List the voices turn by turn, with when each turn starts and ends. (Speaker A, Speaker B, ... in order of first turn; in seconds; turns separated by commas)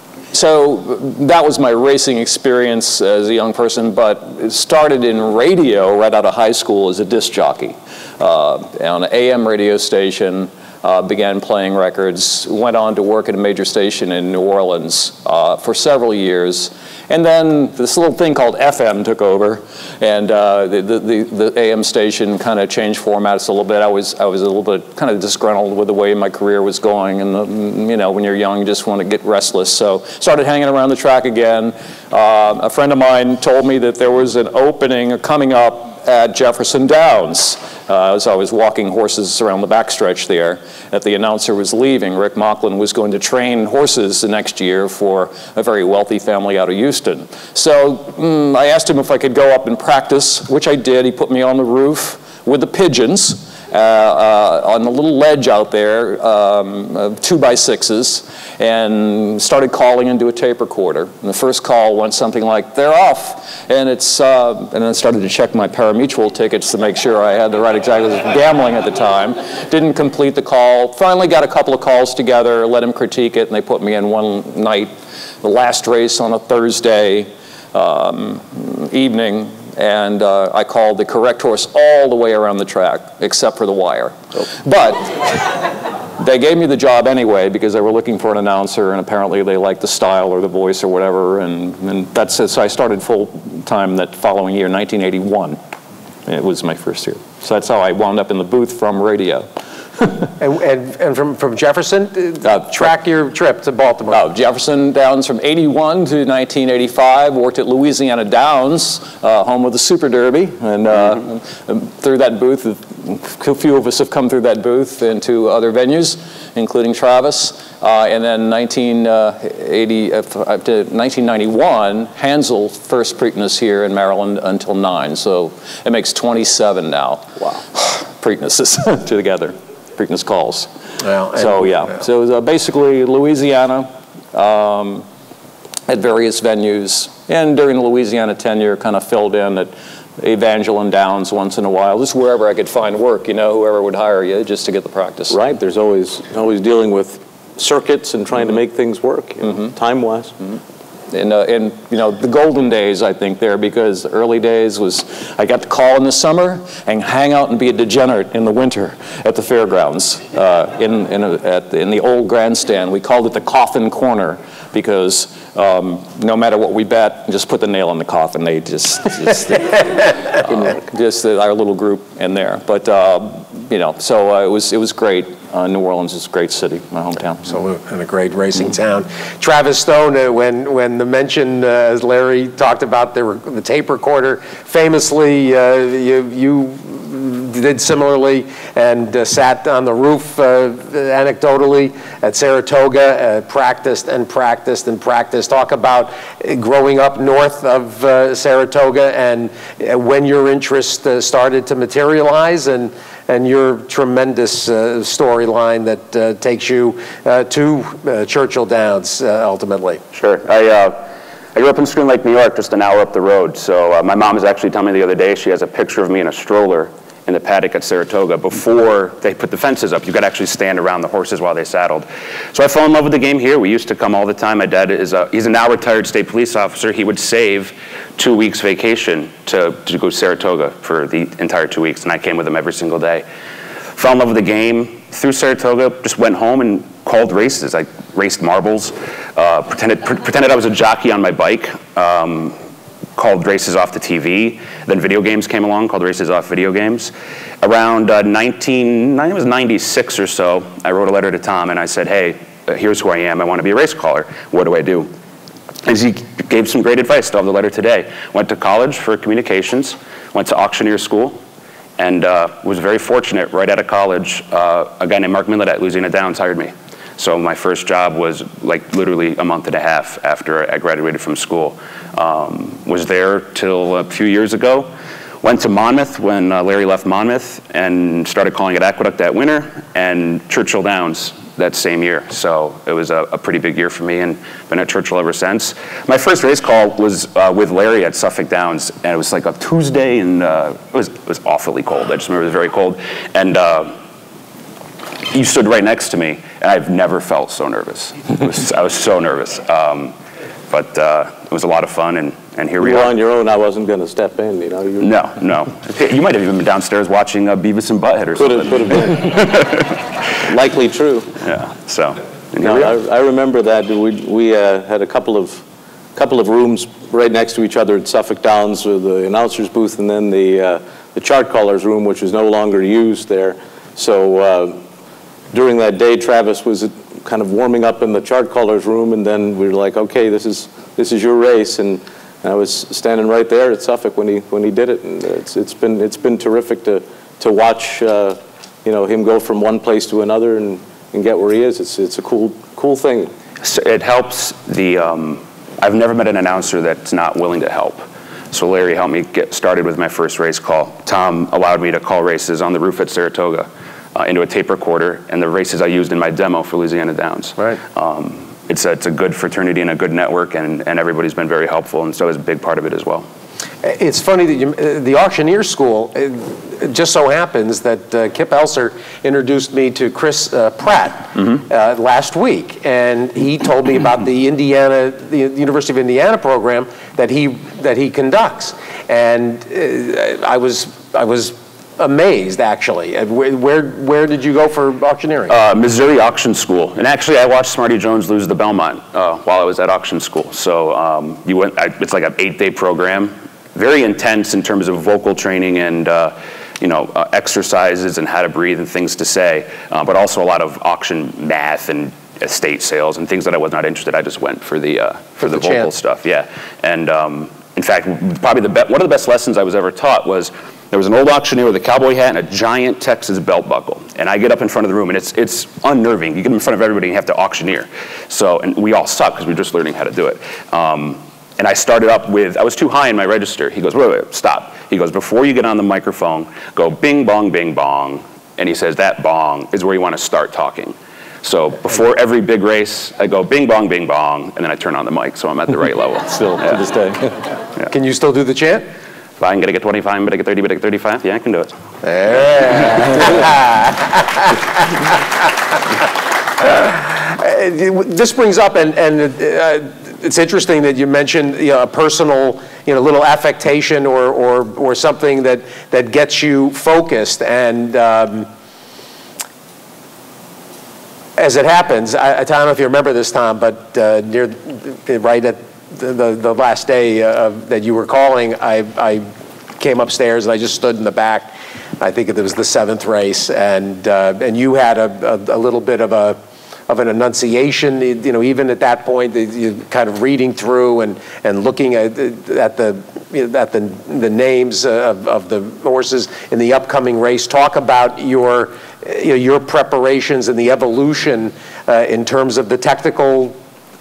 Speaker A: 0.3-85.7, Speaker A: 86.2-95.6, Speaker A: 96.3-99.5, Speaker B: 100.4-104.2, Speaker A: 102.4-102.8, Speaker A: 104.1-130.7, Speaker B: 131.0-131.9, Speaker A: 131.3-135.1, Speaker A: 135.9-145.4, Speaker C: 145.3-150.3, Speaker A: 151.1-177.5, Speaker B: 177.4-210.0, Speaker D: 210.1-211.0, Speaker D: 211.5-233.2, Speaker D: 233.9-242.6, Speaker D: 243.2-255.1, Speaker D: 255.8-261.4, Speaker D: 262.0-274.9, Speaker D: 275.4-293.9, Speaker D: 295.3-300.1, Speaker D: 300.7-303.1, Speaker C: 302.8-305.1, Speaker D: 305.0-310.1, Speaker C: 308.4-309.6, Speaker C: 310.4-311.4, Speaker D: 311.4-313.0, Speaker C: 312.6-315.6, Speaker C: 316.1-324.8, Speaker C: 325.5-343.3, Speaker D: 343.6-363.2, Speaker B: 363.8-385.5, Speaker D: 385.5-436.8, Speaker B: 405.4-405.9, Speaker A: 436.3-437.4, Speaker B: 437.9-438.9, Speaker D: 439.4-441.7, Speaker B: 442.0-444.6, Speaker D: 443.0-443.4, Speaker B: 446.6-458.5, Speaker B: 461.4-469.2, Speaker B: 469.8-493.6